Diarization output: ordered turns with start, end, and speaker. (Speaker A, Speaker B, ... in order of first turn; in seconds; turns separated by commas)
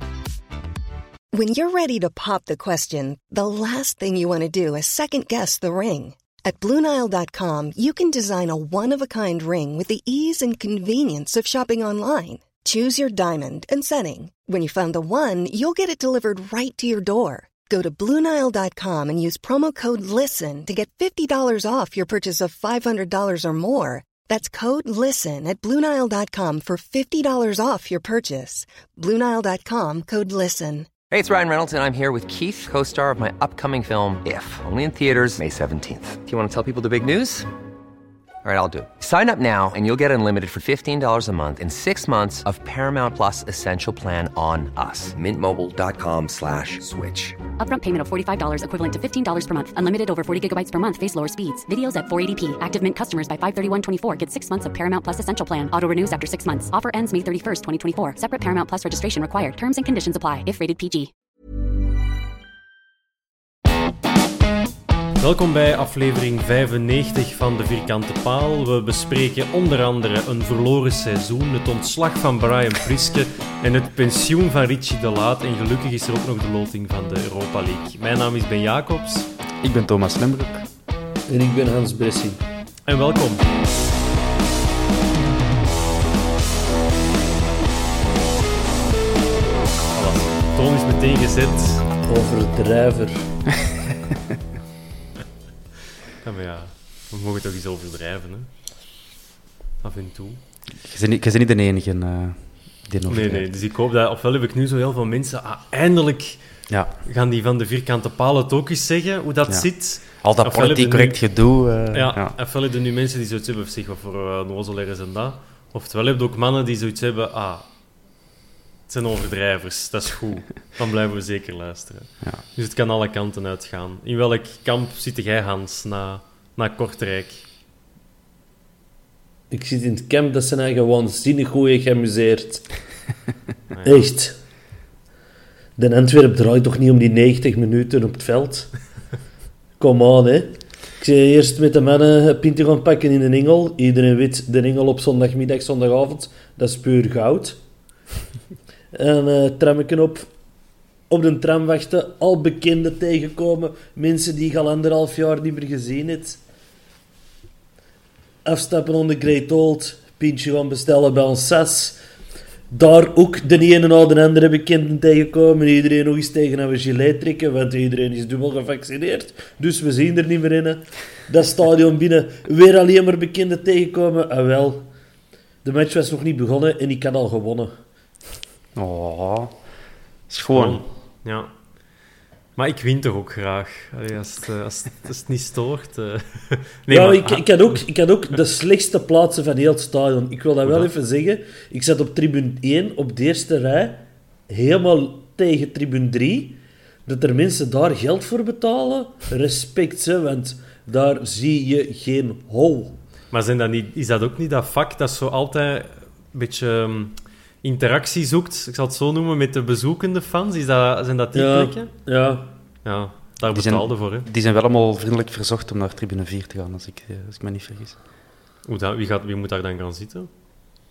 Speaker A: 1.3-30.9, Speaker B: 31.1-37.5, Speaker B: 38.4-47.4, Speaker C: 47.5-61.1, Speaker D: 65.2-79.3, Speaker E: 79.6-80.7, Speaker F: 81.3-82.4, Speaker D: 82.8-83.5, Speaker D: 89.9-91.9, Speaker F: 92.1-93.2, Speaker D: 96.2-98.5, Speaker D: 99.8-100.4, Speaker E: 100.8-103.5, Speaker D: 103.1-117.7, Speaker E: 109.5-112.3, Speaker D: 118.9-127.4, Speaker F: 129.5-132.7, Speaker D: 133.7-134.1, Speaker F: 133.8-134.3, Speaker F: 135.8-138.8, Speaker F: 139.8-147.6, Speaker F: 148.9-150.3, Speaker F: 151.1-156.4, Speaker F: 158.4-162.0, Speaker F: 162.7-174.9, Speaker F: 175.6-177.7, Speaker E: 178.7-179.6, Speaker E: 180.3-180.8, Speaker D: 180.5-181.5, Speaker D: 182.6-187.8, Speaker F: 186.9-203.0, Speaker D: 190.6-190.9, Speaker D: 203.3-211.9, Speaker F: 211.3-212.5, Speaker D: 212.8-214.3, Speaker E: 213.5-218.0, Speaker D: 218.6-220.3